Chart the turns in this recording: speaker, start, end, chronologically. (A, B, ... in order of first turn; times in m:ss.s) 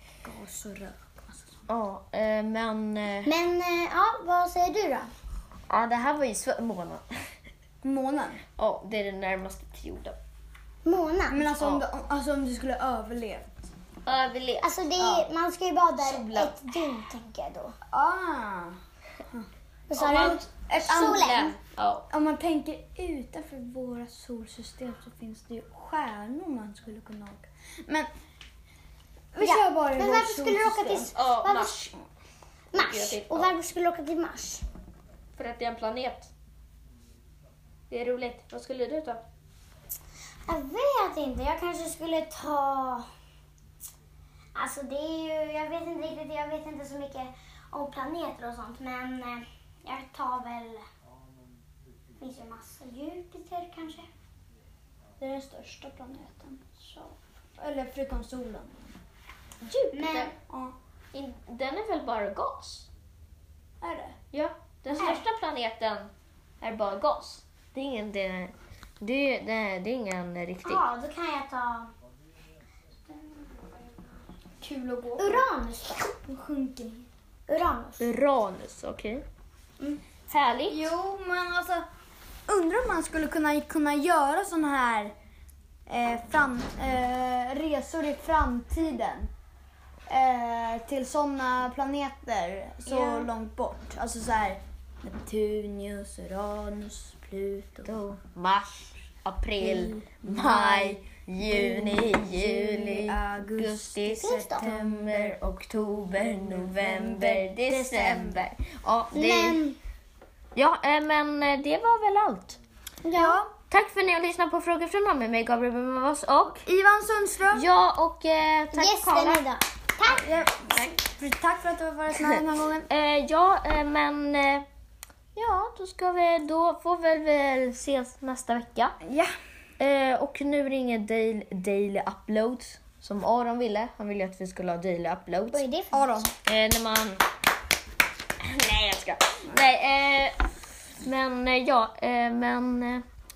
0:00.2-0:01.6 A
0:01.7-0:03.3 B
0:03.2-0:05.1 C
0:05.7-0:07.1 B
0:07.8-0:08.4 A
0:08.6-0:10.2 B
0:10.8-0:11.4 C
0:11.3-0:13.5 A
0:11.6-0:11.8 B
0:14.0-0:14.7 B
0:14.6-0:17.8 C
0:15.0-0:15.3 A
0:16.0-0:16.6 B
0:17.9-0:18.8 A
0:19.9-0:21.6 C
0:20.0-0:22.1 B
0:20.3-0:21.5 A
0:22.1-0:28.1 A
0:29.3-0:31.1 A
0:29.4-0:31.9 C
0:31.1-0:31.9 B
0:32.7-0:33.5 B
0:32.7-0:34.6 C
0:35.4-0:36.3 B
0:37.9-0:39.2 B
0:40.5-0:43.1 C
0:44.6-0:50.8 C
0:52.2-0:54.1 C
0:55.2-0:59.0 A
0:59.6-1:00.3 B
0:59.9-1:00.3 C
1:00.5-1:00.8 A
1:01.1-1:02.9 B
1:03.8-1:04.2 A
1:04.3-1:10.9 B
1:05.0-1:05.2 C
1:10.6-1:11.9 C
1:14.6-1:15.5 A
1:15.2-1:16.1 C
1:16.1-1:17.1 A
1:17.5-1:18.1 C
1:18.0-1:19.2 B
1:20.3-1:20.9 B
1:20.7-1:21.9 A
1:22.5-1:25.1 A
1:25.9-1:29.3 A
1:30.1-1:37.9 A
1:32.9-1:33.3 B
1:37.8-1:49.6 B
1:39.6-1:45.4 A
1:44.2-1:44.6 C
1:46.2-1:48.4 A
1:49.1-1:49.8 C
1:50.6-1:52.6 B
1:53.0-1:53.5 C
1:53.1-1:53.5 A
1:53.7-1:56.7 B
1:56.6-1:57.7 A
1:57.5-1:59.4 B
1:58.7-2:00.3 C
2:00.2-2:02.9 A
2:00.6-2:01.0 B
2:02.9-2:04.7 B
2:05.4-2:09.0 B
2:09.0-2:09.3 A
2:09.8-2:15.6 B
2:15.5-2:16.1 C
2:15.9-2:16.3 A
2:16.4-2:17.2 B
2:18.5-2:20.4 B
2:21.0-2:23.0 B